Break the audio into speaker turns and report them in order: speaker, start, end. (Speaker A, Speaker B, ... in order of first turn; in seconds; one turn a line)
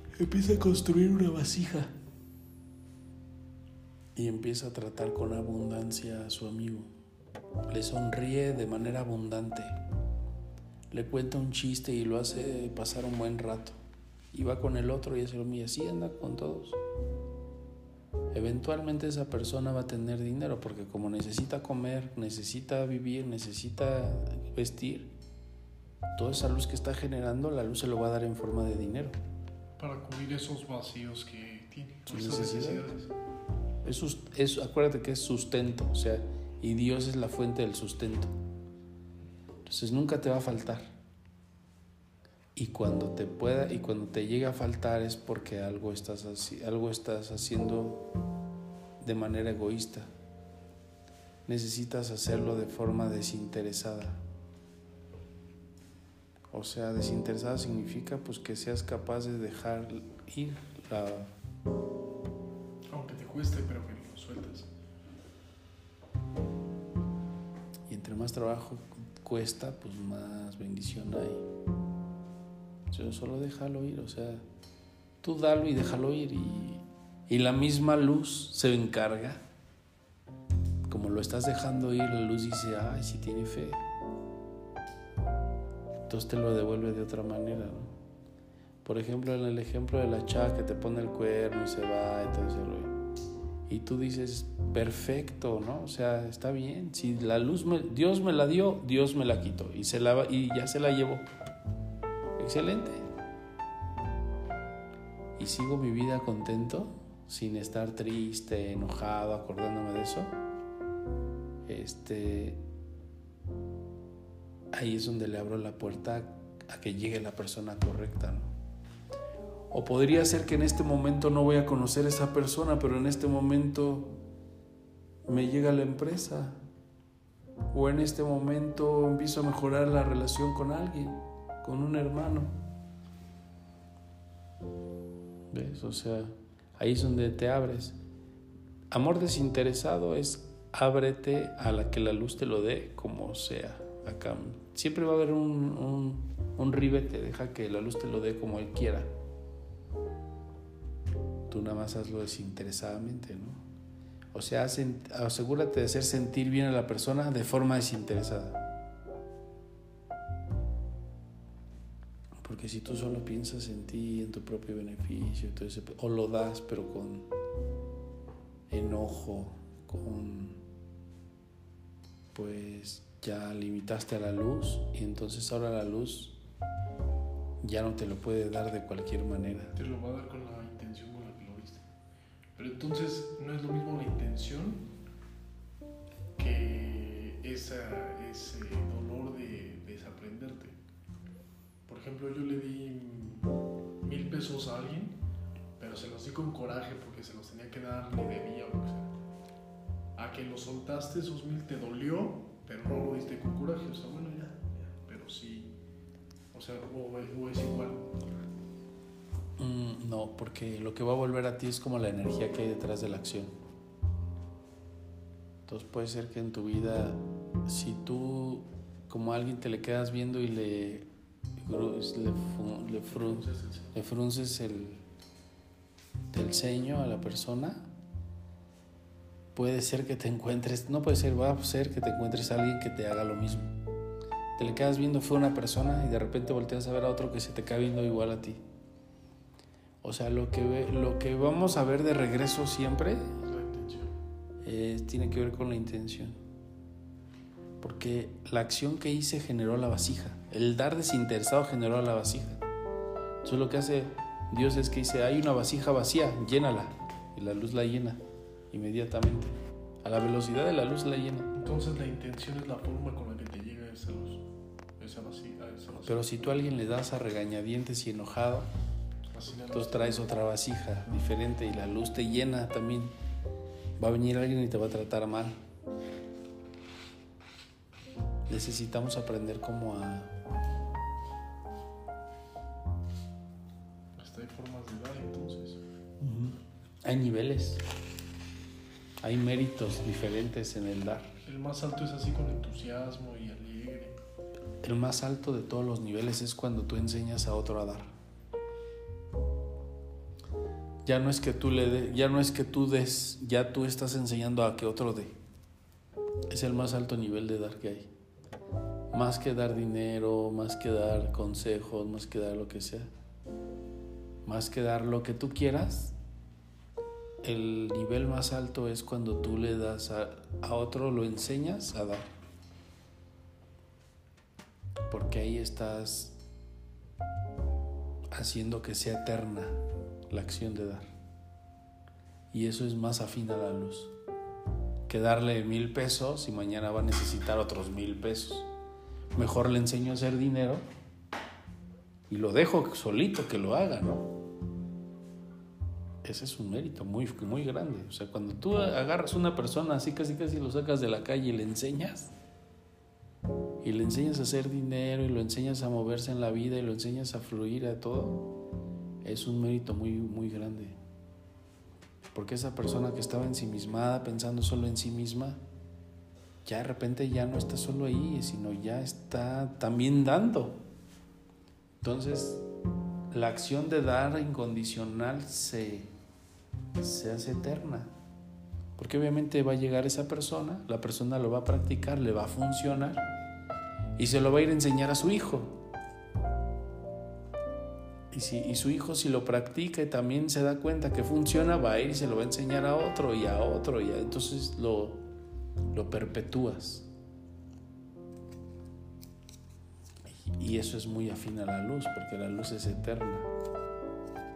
Speaker A: 0.1-1.9
Speaker A: 4.2-6.9
Speaker A: 7.7-9.8
Speaker A: 10.9-13.8
Speaker A: 14.3-16.8
Speaker A: 18.3-25.1
Speaker A: 26.1-29.1
Speaker B: 29.8-33.1
Speaker A: 32.1-32.9
Speaker A: 33.8-38.3
Speaker A: 39.6-40.9
Speaker A: 42.5-48.0
Speaker A: 49.0-50.1
Speaker A: 51.5-54.2
Speaker A: 56.5-61.3
Speaker B: 62.9-64.7
Speaker A: 67.9-71.4
Speaker A: 72.9-74.4
Speaker A: 75.2-79.4
Speaker A: 80.9-83.8
Speaker A: 86.1-87.9
Speaker A: 88.8-92.9
Speaker A: 93.7-101.2
Speaker A: 102.4-103.0
Speaker A: 105.4-110.3
Speaker A: 111.7-112.6
Speaker A: 114.7-118.5
Speaker A: 119.7-124.2
Speaker A: 125.2-126.6
Speaker A: 127.7-132.5
Speaker A: 135.5-137.9
Speaker A: 138.9-149.1
Speaker A: 151.5-153.6
Speaker A: 154.3-158.6
Speaker A: 162.4-167.3
Speaker A: 168.7-170.6
Speaker A: 172.3-176.3
Speaker A: 177.6-179.7
Speaker B: 179.7-181.8
Speaker B: 182.6-184.9
Speaker B: 186.4-190.8
Speaker B: 191.8-195.2
Speaker B: 195.8-199.1
Speaker B: 200.2-205.7
Speaker B: 206.5-208.1
Speaker A: 209.6-213.5
Speaker A: 215.7-225.0
Speaker B: 223.1-223.9
Speaker A: 226.3-227.9
Speaker A: 229.5-233.7
Speaker A: 234.6-238.6
Speaker A: 240.0-243.4
Speaker B: 243.4-244.1
Speaker A: 244.6-246.3
Speaker A: 247.8-252.6
Speaker A: 253.4-258.2
Speaker A: 258.7-261.5
Speaker B: 261.5-264.4
Speaker B: 265.0-266.3
Speaker A: 266.0-268.7
Speaker B: 269.3-270.2
Speaker A: 269.7-273.1
Speaker A: 274.0-275.6
Speaker A: 278.5-280.3
Speaker B: 284.1-285.8
Speaker A: 286.2-287.8
Speaker A: 289.2-291.3
Speaker B: 291.4-294.2
Speaker A: 294.8-298.1
Speaker A: 301.0-305.3
Speaker A: 306.5-308.1
Speaker A: 309.1-313.1
Speaker A: 314.4-316.1
Speaker A: 317.4-322.3
Speaker A: 325.1-326.4
Speaker A: 328.3-331.1
Speaker A: 332.5-334.1
Speaker A: 335.1-338.7
Speaker A: 339.3-340.8
Speaker A: 342.3-344.3
Speaker A: 346.2-352.3
Speaker A: 353.8-358.5
Speaker A: 359.2-360.9
Speaker A: 362.3-365.6
Speaker A: 366.6-370.8
Speaker A: 372.0-372.6
Speaker A: 373.3-376.1
Speaker A: 377.0-378.1
Speaker A: 379.0-383.2
Speaker A: 384.2-385.8
Speaker A: 388.3-395.2
Speaker A: 395.9-397.1
Speaker A: 400.3-403.5